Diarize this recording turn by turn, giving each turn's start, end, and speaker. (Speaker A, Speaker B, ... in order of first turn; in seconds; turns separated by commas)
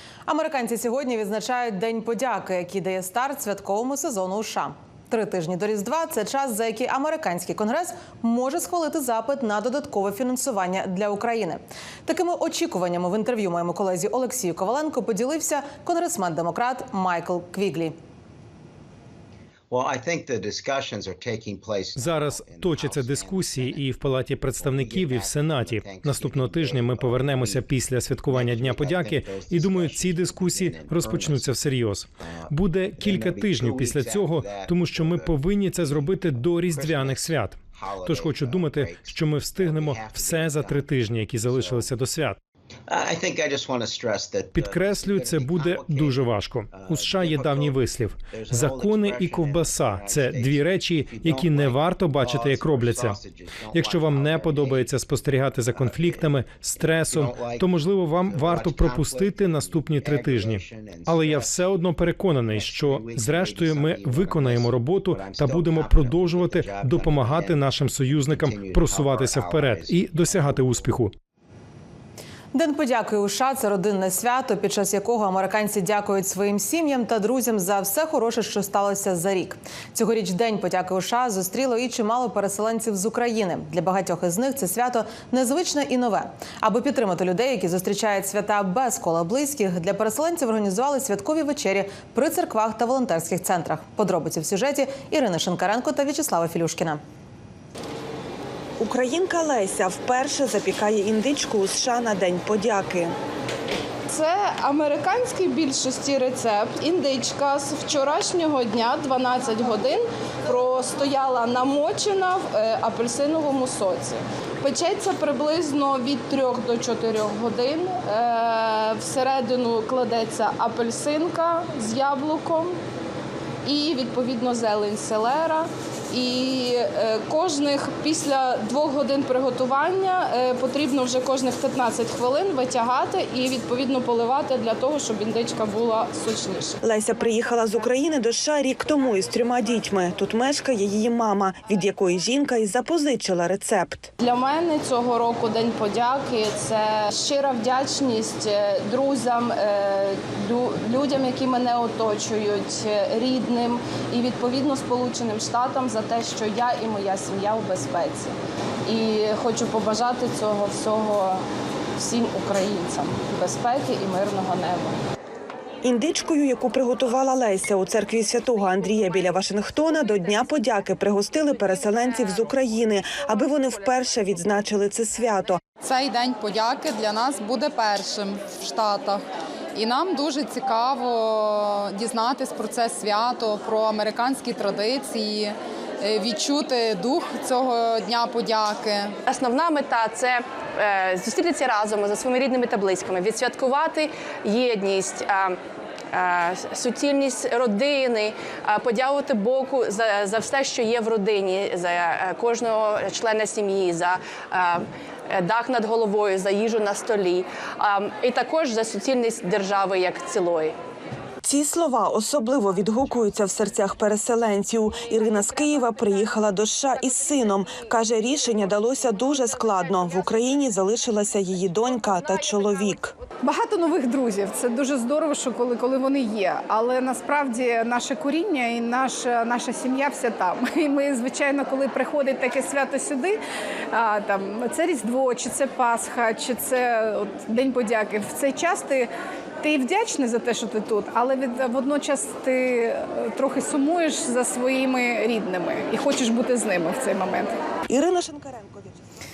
Speaker A: 0.3-17.9, Speaker B: 19.7-23.8, Speaker C: 21.9-42.4, Speaker B: 24.6-27.7, Speaker B: 28.3-31.6, Speaker B: 32.2-40.9, Speaker B: 41.4-41.9, Speaker B: 42.9-54.9, Speaker C: 44.5-71.1, Speaker B: 55.7-56.3, Speaker B: 56.9-61.6, Speaker B: 62.5-67.7, Speaker B: 68.3-71.0, Speaker A: 72.5-97.0, Speaker D: 98.8-103.1, Speaker E: 104.1-122.8, Speaker E: 123.6-136.8, Speaker D: 136.8-144.1, Speaker E: 144.2-161.4, Speaker E: 162.0-165.0, Speaker D: 165.8-175.6, Speaker F: 175.8-179.2, Speaker F: 179.7-189.2, Speaker G: 189.2-195.6, Speaker G: 196.1-210.7, Speaker D: 211.4-223.1, Speaker H: 223.4-233.4, Speaker H: 233.9-239.1, Speaker H: 239.6-247.6, Speaker D: 247.9-249.0